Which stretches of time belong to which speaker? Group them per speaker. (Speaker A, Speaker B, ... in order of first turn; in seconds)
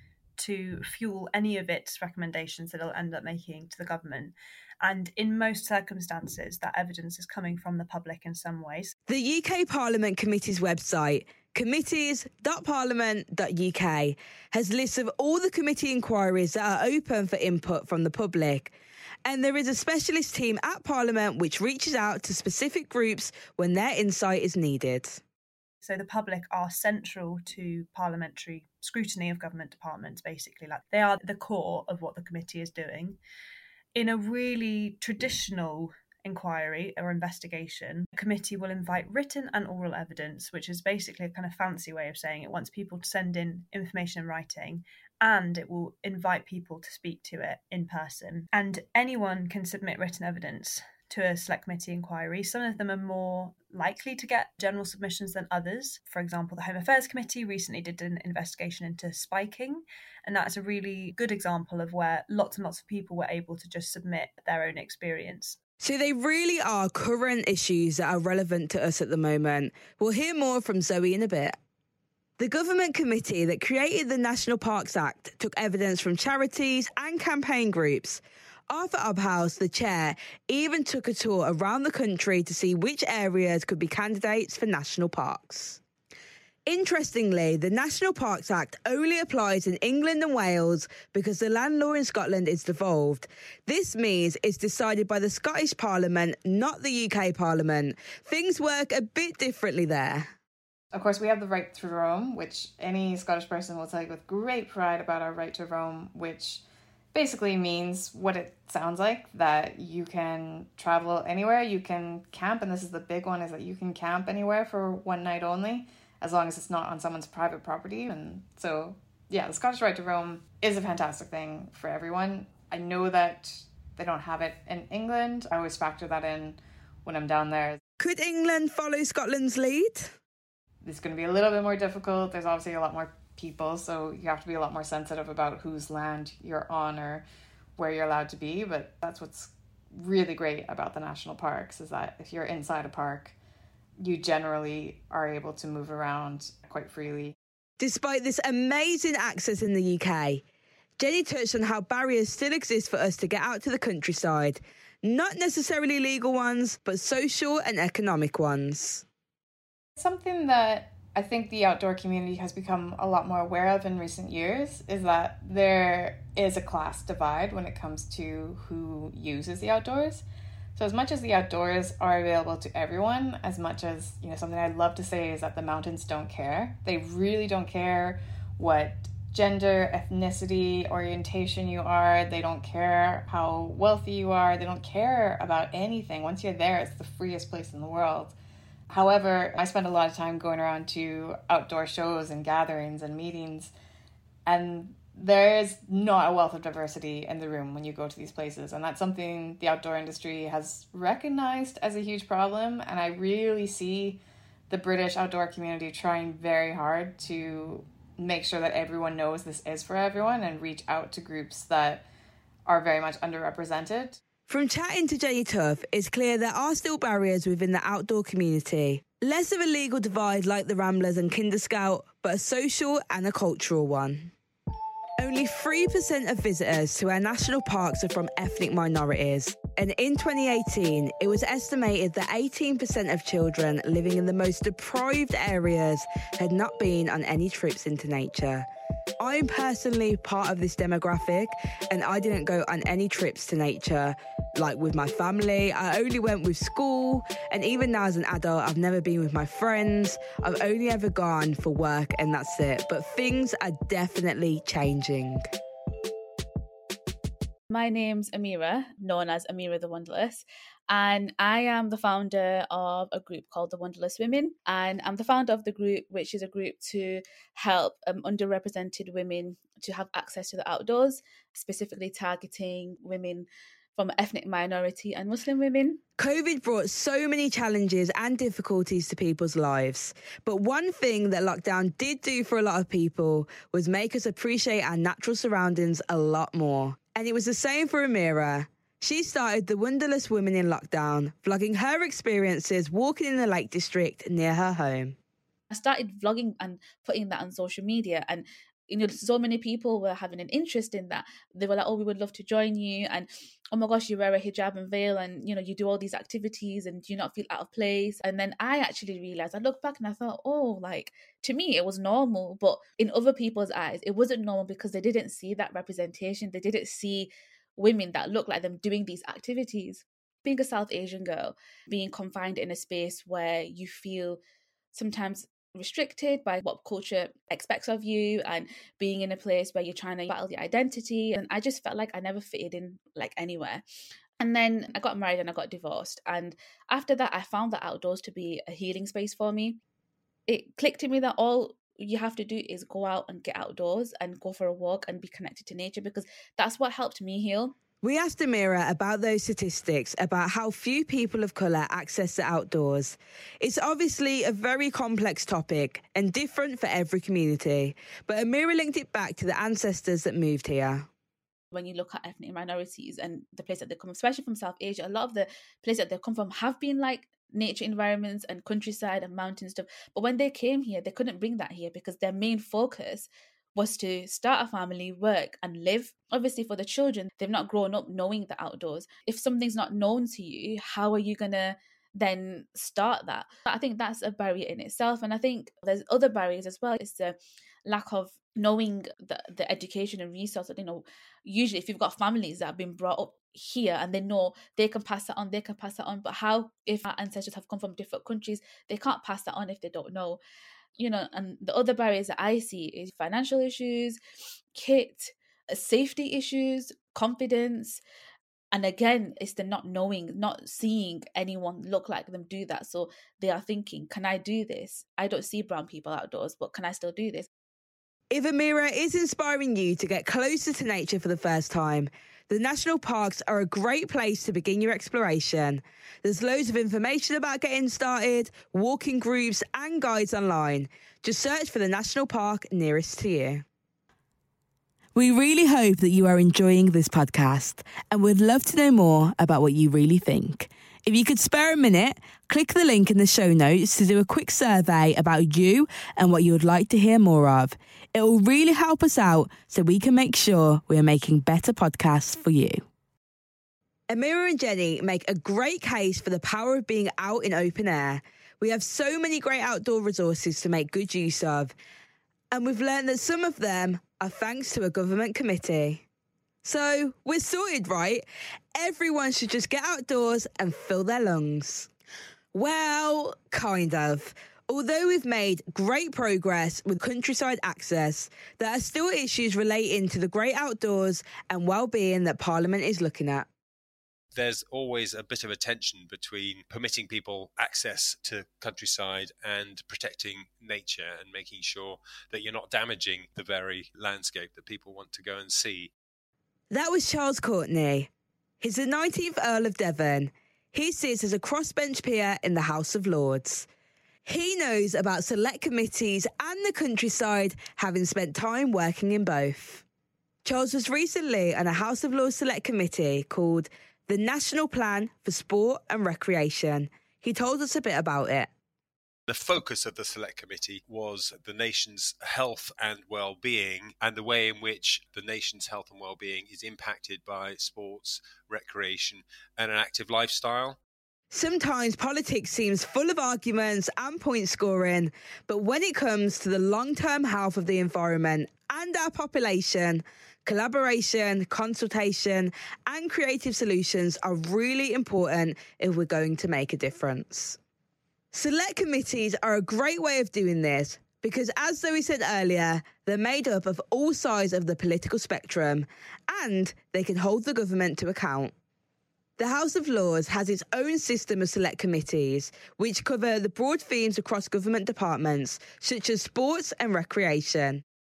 Speaker A: 0.4-8.9, 25.8-33.2, 34.0-65.6
Speaker B: 9.1-18.7, 19.2-25.2, 65.8-71.6, 72.4-85.8, 86.7-100.3, 128.0-130.2, 147.8-150.4, 151.0-159.0, 214.5-224.3, 225.2-238.7, 239.2-255.5, 276.2-295.2, 348.0-361.1, 418.3-433.6, 435.1-452.9, 454.1-461.8, 462.5-466.0, 466.6-468.2, 468.8-471.9, 472.5-483.5, 496.7-498.1, 498.6-503.7, 504.2-509.8, 510.4-518.5, 531.3-547.6, 548.3-558.5, 559.4-567.8
Speaker C: 100.9-106.6, 107.1-127.8, 130.8-137.2, 137.8-143.4, 144.0-147.4, 160.0-170.2, 170.8-188.3, 188.9-193.7, 194.5-212.1, 212.7-214.2
Speaker D: 257.7-276.0, 295.7-324.4, 324.9-333.8, 334.4-339.8, 340.5-347.8, 361.7-400.4, 401.0-404.2, 404.8-408.0, 408.7-417.5
Speaker E: 484.3-495.9, 519.3-530.8